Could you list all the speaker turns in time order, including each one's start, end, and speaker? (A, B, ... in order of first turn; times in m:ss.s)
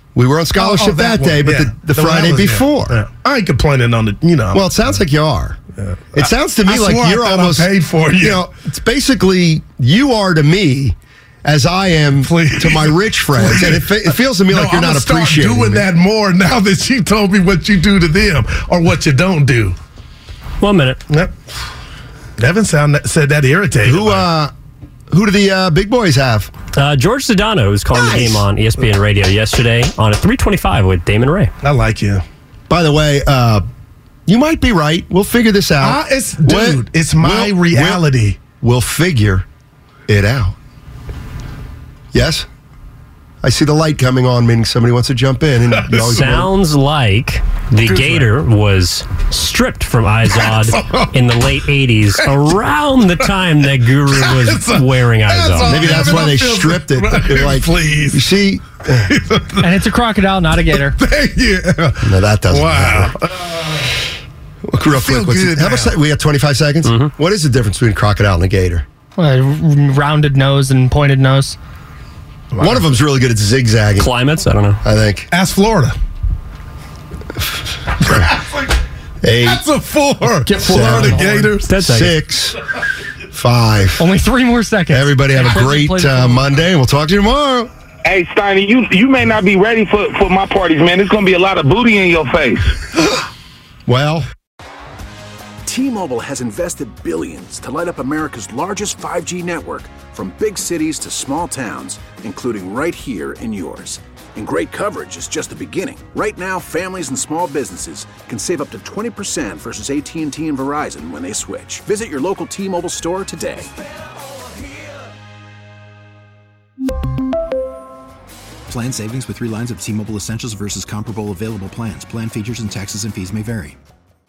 0:00.1-0:03.0 A
0:00.6-0:04.6 B
0:04.5-0:05.6 A
0:05.8-0:08.4 B
0:06.1-0:15.9 A
0:12.2-0:19.8 B
0:20.6-0:21.0 C
0:22.4-0:24.2 B
0:23.8-0:24.5 A
0:25.1-0:26.5 A
0:26.7-0:31.5 C
0:27.9-0:28.4 A
0:31.6-0:32.2 B
0:32.7-0:33.6 A
0:34.3-0:38.0 A
0:35.8-0:38.4 B
0:38.6-0:39.4 A
0:40.1-0:40.5 A
0:42.1-0:42.5 A
0:43.4-0:46.5 A
0:45.8-0:46.2 B
0:46.1-0:56.2 C
0:47.8-0:48.3 B
0:50.3-0:51.5 B
0:52.1-0:52.5 B
0:54.1-0:58.3 B
0:55.6-0:59.1 A
0:59.0-0:59.7 B
0:59.6-1:01.0 D
1:00.7-1:04.0 B
1:02.0-1:03.1 A
1:04.7-1:08.8 A
1:04.8-1:06.0 B
1:06.8-1:07.1 C
1:09.2-1:11.6 D
1:12.5-1:12.8 B
1:12.6-1:14.2 A
1:14.0-1:14.8 C
1:14.8-1:15.3 A
1:15.3-1:15.9 B
1:18.0-1:18.3 A
1:18.0-1:18.7 B
1:19.2-1:19.6 A
1:19.4-1:21.7 B
1:20.4-1:21.5 D
1:20.6-1:22.6 A
1:21.6-1:22.1 C
1:23.3-1:24.1 A
1:24.0-1:26.4 D
1:24.9-1:27.7 A
1:28.0-1:32.7 E
1:33.9-1:34.2 A
1:35.6-1:53.7 F
1:58.7-2:03.8 G